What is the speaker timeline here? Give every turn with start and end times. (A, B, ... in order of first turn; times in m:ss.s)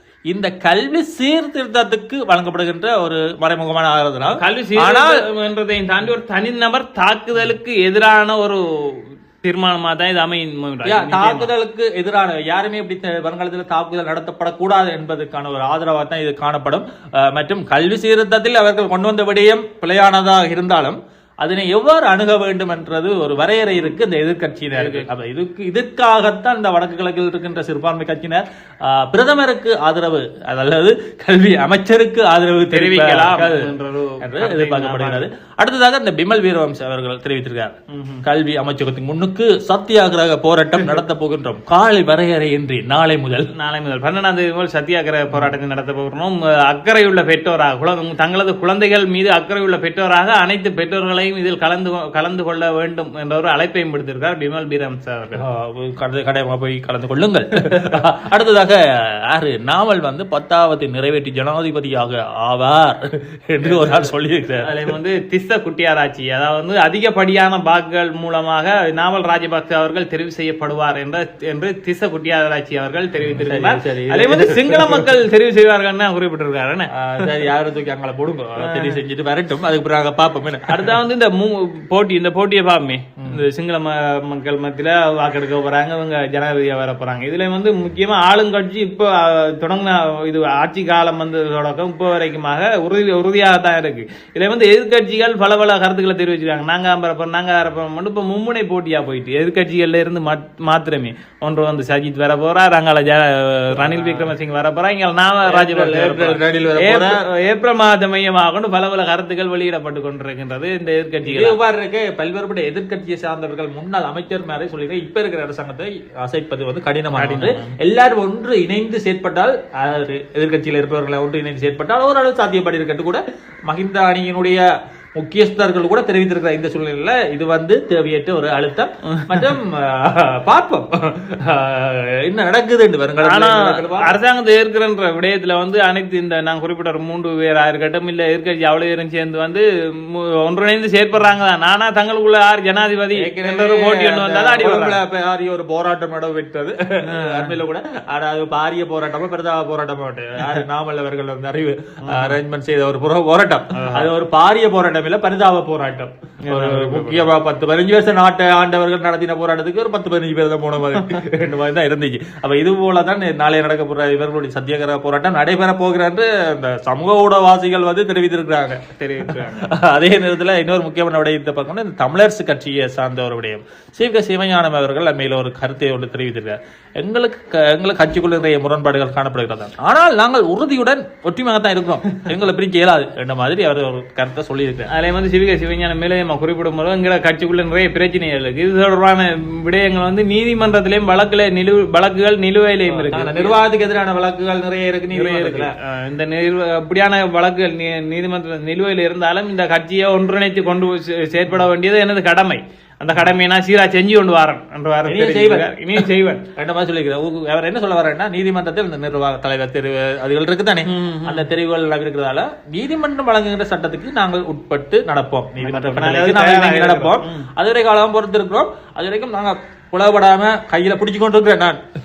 0:00.3-0:05.2 A
0:04.3-0:11.5 B
0:10.8-0:43.5 A
0:24.7-0:25.1 B
0:32.7-0:35.3 B
0:37.9-0:38.2 B
0:43.6-0:55.4 B
0:55.4-1:04.7 A
1:03.6-1:04.1 B
1:04.6-1:17.4 B
1:13.2-1:15.1 A
1:16.9-1:20.9 A
1:18.6-1:19.0 B
1:20.7-1:51.6 B
1:43.8-1:44.3 A
1:45.5-1:47.2 A
1:51.2-2:04.6 A
1:57.2-1:57.7 B
2:05.2-2:14.2 A
2:09.1-2:09.5 B
2:13.2-2:25.0 B
2:23.2-3:04.9 A
2:27.1-2:27.6 B
2:32.0-2:32.4 B
2:33.7-2:34.1 B
2:36.4-2:37.3 B
2:49.0-2:49.7 B
3:04.9-3:13.6 B
3:12.9-3:15.7 A
3:15.1-3:26.4 B
3:25.1-3:41.8 A
3:30.8-3:31.5 B
3:35.6-3:37.5 B